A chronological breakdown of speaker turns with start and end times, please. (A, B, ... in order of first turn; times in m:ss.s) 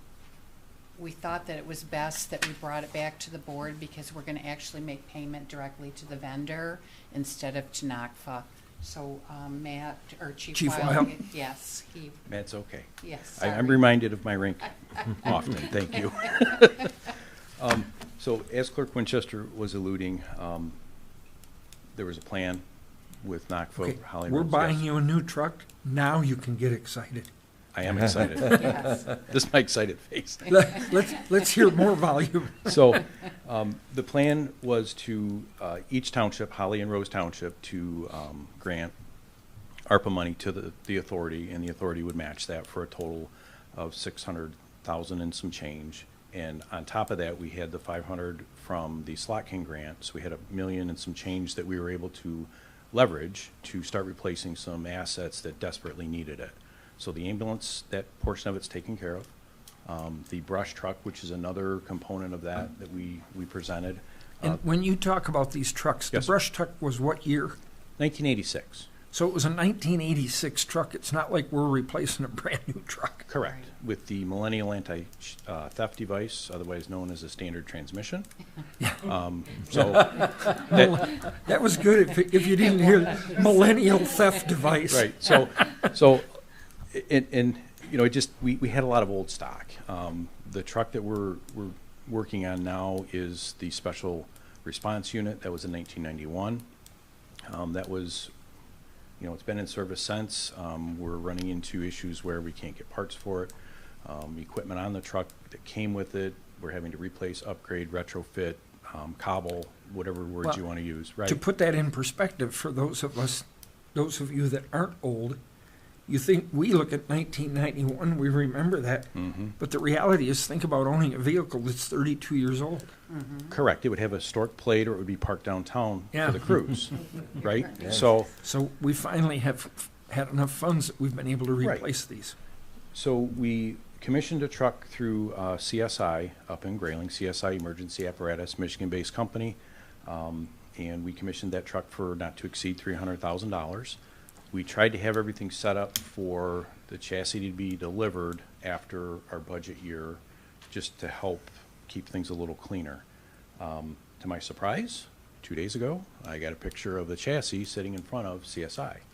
0:01.0-0:12.2 A
0:10.5-0:11.2 B
0:12.3-0:16.9 C
0:13.0-0:13.9 A
0:17.6-0:20.8 C
0:21.9-0:22.6 C
0:23.2-0:24.8 C
0:23.8-0:27.3 B
0:27.7-0:30.8 C
0:28.6-0:29.0 A
0:30.5-0:32.8 B
0:32.6-0:38.9 C
0:39.9-0:59.3 C
0:59.8-1:04.6 C
1:04.4-1:07.6 B
1:08.0-1:08.9 C
1:09.1-1:13.3 B
1:13.3-1:18.3 C
1:18.8-1:19.1 B
1:19.0-1:21.2 C
1:19.7-1:25.9 B
1:24.9-1:26.3 C
1:26.9-1:36.6 C
1:37.4-1:38.3 C
1:39.2-1:51.4 C
1:51.2-1:55.4 B
1:56.1-2:02.9 B
1:59.1-1:59.6 C
2:03.1-2:03.6 A
2:03.5-2:08.3 C
2:06.1-2:06.5 B
2:07.4-2:07.7 A
2:08.4-2:12.3 B
2:11.6-2:11.8 C
2:12.9-2:24.0 C
2:24.5-2:33.0 C
2:33.6-2:39.0 C